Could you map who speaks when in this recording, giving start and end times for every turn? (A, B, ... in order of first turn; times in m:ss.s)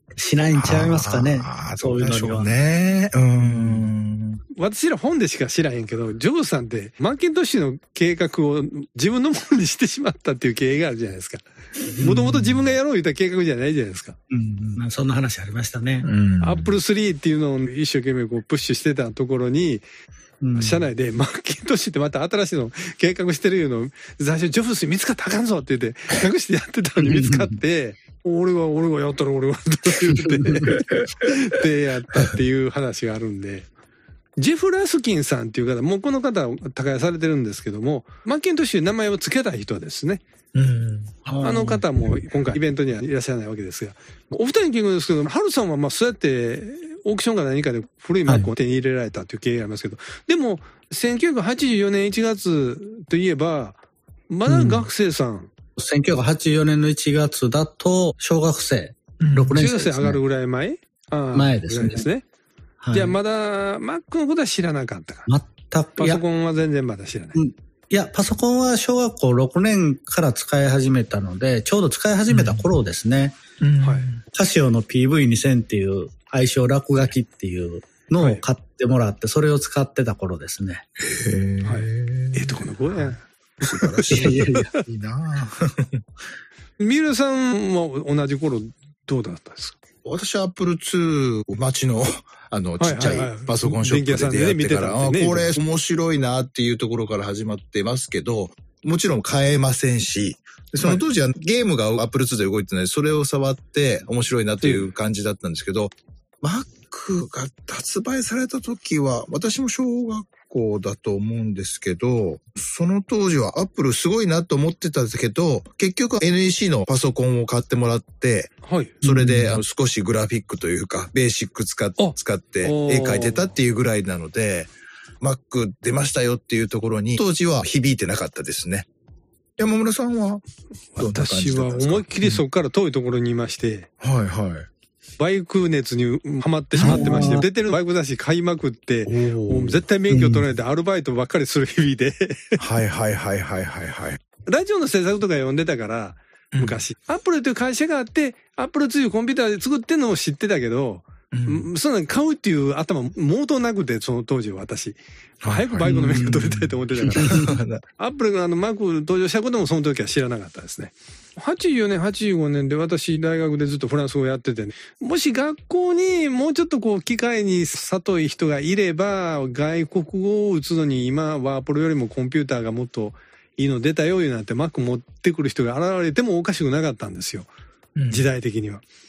0:00.2-0:02.5 A
0:00.6-0:04.4 B
0:03.4-0:03.8 A
0:04.5-0:14.2 C
0:11.9-0:12.7 A
0:14.3-0:16.1 A
0:16.0-0:16.8 B
0:16.4-0:19.8 C
0:20.4-0:20.9 A
0:20.6-0:33.7 C
0:27.0-0:27.6 A
0:30.1-0:30.7 A
0:30.7-0:31.0 B
0:34.4-0:40.2 C
0:40.5-0:41.1 B
0:41.2-0:42.0 A
0:41.4-0:53.8 C
0:54.3-0:55.5 C
0:54.5-0:54.9 A
0:55.8-1:00.2 A
0:59.2-0:59.6 B
0:59.5-1:02.2 C
1:01.3-1:02.1 A
1:02.8-1:03.2 A
1:02.9-1:05.3 C
1:05.3-1:06.2 A
1:06.0-1:07.4 C
1:07.4-1:13.4 A
1:12.3-1:12.6 B
1:13.6-1:14.2 B
1:13.8-1:14.1 C
1:14.3-1:20.8 A
1:21.0-1:26.0 B
1:21.6-1:24.1 C
1:24.0-1:24.7 A
1:26.8-1:29.8 C
1:30.0-2:08.9 B
1:32.8-1:35.5 C
1:44.6-1:44.9 C
1:58.6-1:59.0 C
1:59.0-1:59.6 A
2:02.0-2:03.5 C
2:09.6-2:10.4 B
2:11.0-2:13.9 C
2:11.0-2:12.4 B
2:14.0-2:14.7 B
2:15.2-2:22.6 C
2:16.7-2:17.4 B
2:16.8-2:17.5 A
2:19.1-2:19.8 B
2:20.1-2:20.4 A
2:22.6-2:24.2 B
2:24.4-2:37.4 C
2:26.5-2:26.8 B
2:31.3-2:31.7 B
2:35.4-2:37.8 B
2:35.9-2:36.4 A
2:37.0-2:37.5 A
2:38.0-2:57.5 C
2:58.0-2:58.3 B
2:58.1-2:58.8 C